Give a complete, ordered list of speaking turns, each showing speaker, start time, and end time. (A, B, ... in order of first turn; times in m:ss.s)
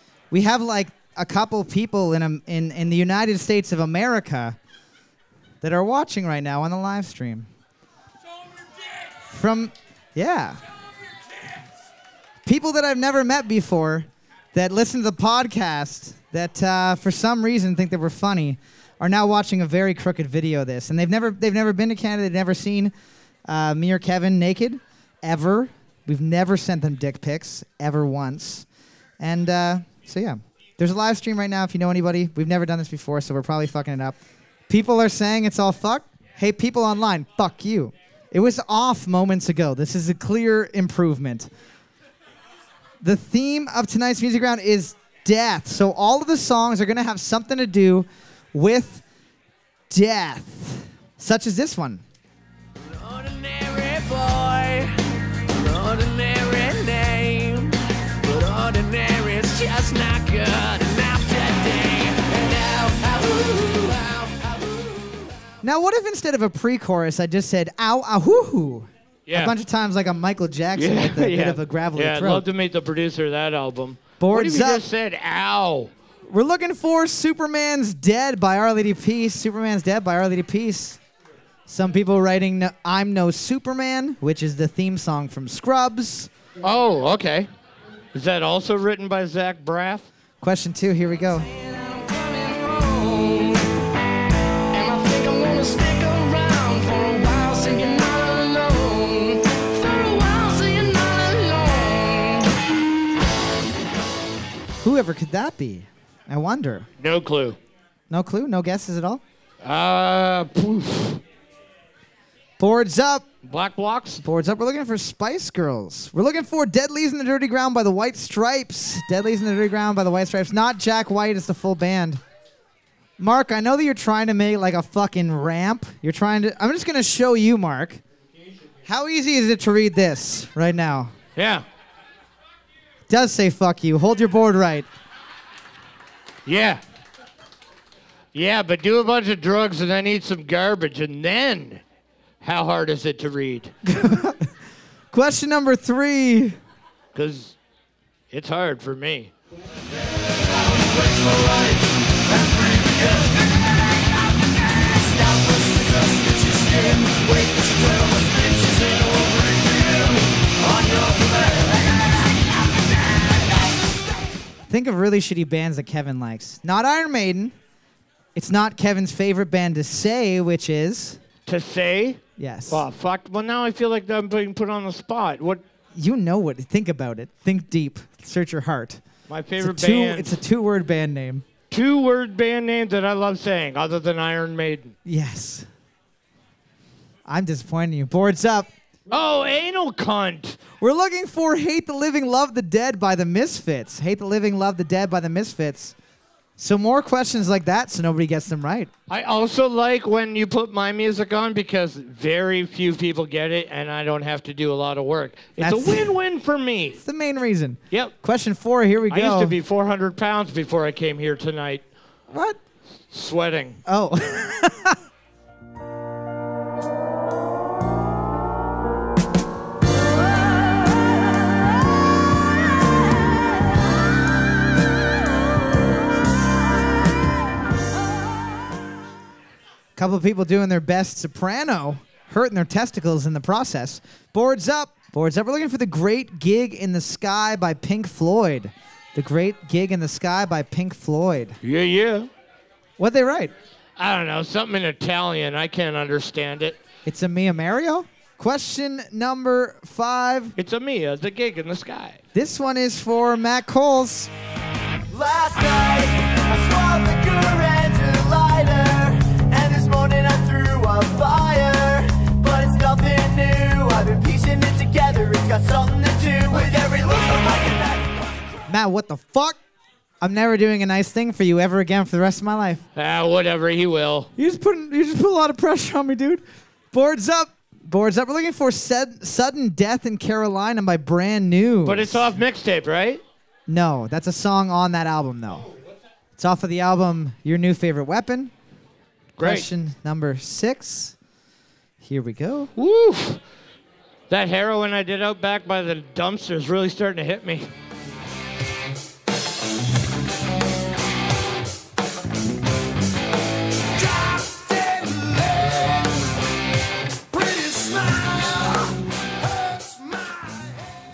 0:00.3-0:04.6 A
0:05.6-0:07.5 A
0:09.3-0:10.6 A
0:12.4-0:22.9 A
0:23.5-0:28.7 A
0:29.2-0:34.2 A
0:34.7-0:41.5 A
0:43.0-0:49.0 A
0:49.9-0:52.0 A
0:52.8-1:05.3 B
1:05.6-1:12.5 A
1:09.3-1:09.6 C
1:10.8-1:15.9 C
1:14.2-1:14.8 A
1:16.3-1:21.0 A
1:21.7-1:26.3 A
1:26.6-1:27.5 C
1:28.1-1:30.1 C
1:30.4-1:31.5 A
1:31.6-1:33.7 B
1:34.7-1:42.6 B
1:44.8-1:46.9 A
1:47.0-1:47.6 C
1:48.1-1:49.2 A
1:49.6-1:51.2 C
1:52.6-1:53.2 A
1:53.4-1:54.2 C
1:54.2-2:02.2 A
2:03.2-2:08.0 A
2:08.9-2:11.1 A
2:11.4-2:11.6 C
2:13.1-2:14.9 A
2:16.5-2:16.8 C
2:18.3-2:21.8 C
2:22.4-2:23.7 C
2:23.8-2:24.5 A
2:25.1-2:26.6 A
2:27.1-2:27.6 C
2:28.3-2:29.3 C
2:30.3-2:43.5 B
2:44.7-2:47.5 A
2:48.4-2:51.2 A
2:51.5-2:55.6 C
2:52.4-2:52.8 A
2:55.9-2:59.0 A
2:59.3-3:00.4 C
2:59.6-3:01.4 A
3:01.7-3:04.9 C
3:05.0-3:05.7 A
3:07.3-3:08.7 A
3:09.1-3:10.6 C
3:10.8-3:16.0 A
3:16.6-3:18.9 A
3:19.1-3:27.0 C
3:25.6-3:26.1 A
3:27.0-3:29.6 A
3:29.1-3:31.8 C
3:32.3-3:32.6 A
3:33.1-3:33.8 C
3:33.9-3:35.0 A
3:50.0-4:01.6 A
4:01.6-4:02.3 C
4:03.0-4:03.5 A
4:04.0-4:06.8 C
4:07.0-4:10.6 A
4:10.6-4:12.2 C
4:12.3-4:14.3 A
4:15.1-4:28.2 B
4:28.7-4:29.6 A
4:30.2-4:32.8 A
4:33.0-4:34.3 C
4:34.4-4:42.3 A
4:41.8-4:43.2 C
4:43.7-4:45.7 A
4:46.4-4:48.5 A
4:49.4-4:49.7 C
4:49.4-4:51.2 A
4:52.0-4:52.7 A
4:52.8-4:53.4 C
4:54.3-4:57.7 C
5:04.0-5:06.0 B
5:07.3-5:09.0 B
5:09.6-5:10.5 B